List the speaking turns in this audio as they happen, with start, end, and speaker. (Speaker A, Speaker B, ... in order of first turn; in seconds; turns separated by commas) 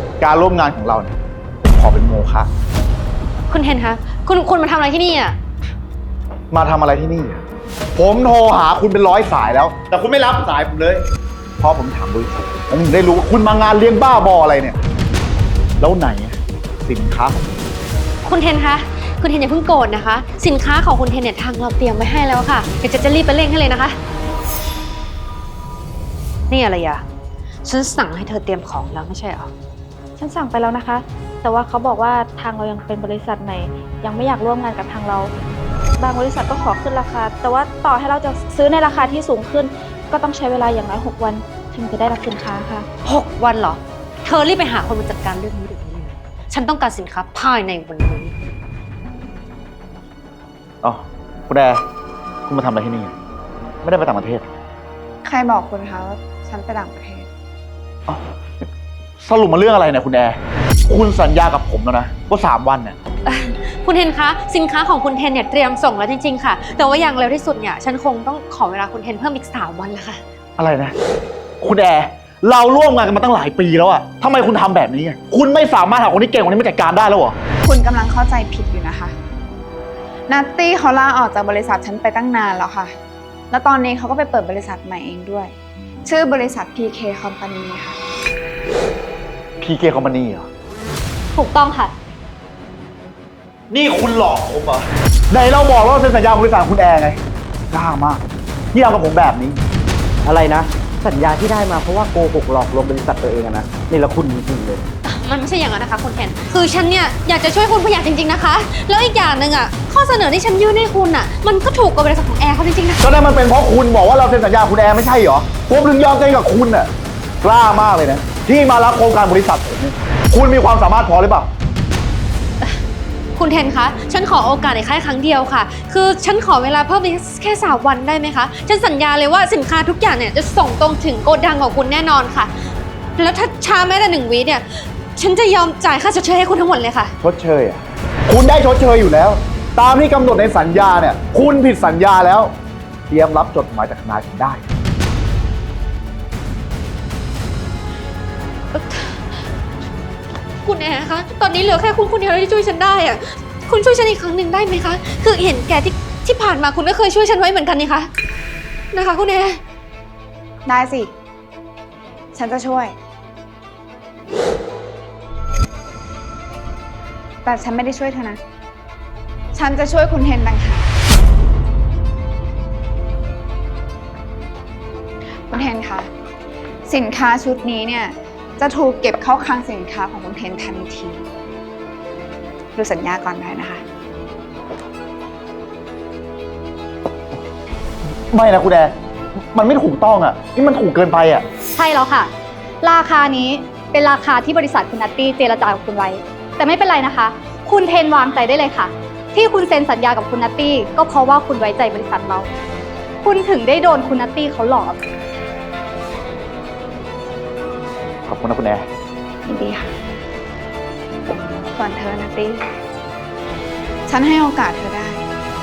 Speaker A: 0.2-2.5, Speaker B: 3.5-5.3, Speaker A: 6.5-7.4, Speaker A: 8.0-11.0, Speaker A: 11.6-14.8, Speaker A: 15.8-17.5, Speaker B: 18.2-24.0, Speaker B: 26.5-27.0, Speaker B: 27.6-29.5, Speaker C: 30.2-35.3, Speaker C: 36.0-42.9, Speaker B: 43.0-48.3, Speaker A: 50.8-51.8, Speaker A: 52.5-53.1, Speaker A: 53.8-54.5, Speaker D: 55.2-57.3, Speaker A: 59.2-63.0, Speaker B: 63.2-70.2, Speaker A: 70.6-70.9, Speaker A: 71.6-77.4, Speaker D: 77.6-79.1, Speaker D: 80.3-82.9, Speaker D: 83.5-85.5, Speaker D: 86.0-88.0, Speaker A: 89.6-90.5, Speaker E: 91.3-91.9, Speaker A: 93.7-97.2, Speaker A: 97.7-98.2, Speaker A: 98.7-99.6, Speaker F: 100.2-104.8, Speaker B: 105.0-113.0, Speaker A: 113.0-116.9, Speaker A: 117.4-121.5, Speaker B: 123.3-132.5, Speaker B: 133.2-137.1, Speaker A: 137.2-142.5, Speaker A: 143.1-144.6, Speaker B: 148.7-149.3, Speaker B: 150.6-158.1, Speaker B: 158.9-159.6, Speaker D: 160.7-161.1, Speaker D: 162.3-162.9, Speaker D: 167.4-168.4, Speaker D: 169.5-170.8, Speaker D: 175.5-176.1, Speaker D: 176.8-181.2, Speaker D: 182.8-183.8, Speaker A: 188.3-188.9, Speaker A: 189.5-191.4, Speaker E: 191.8-192.3, Speaker E: 192.8-202.5, Speaker E: 203.2-205.0, Speaker A: 208.3-208.9, Speaker D: 209.4-209.9, Speaker D: 211.3-212.7, Speaker D: 214.1-215.2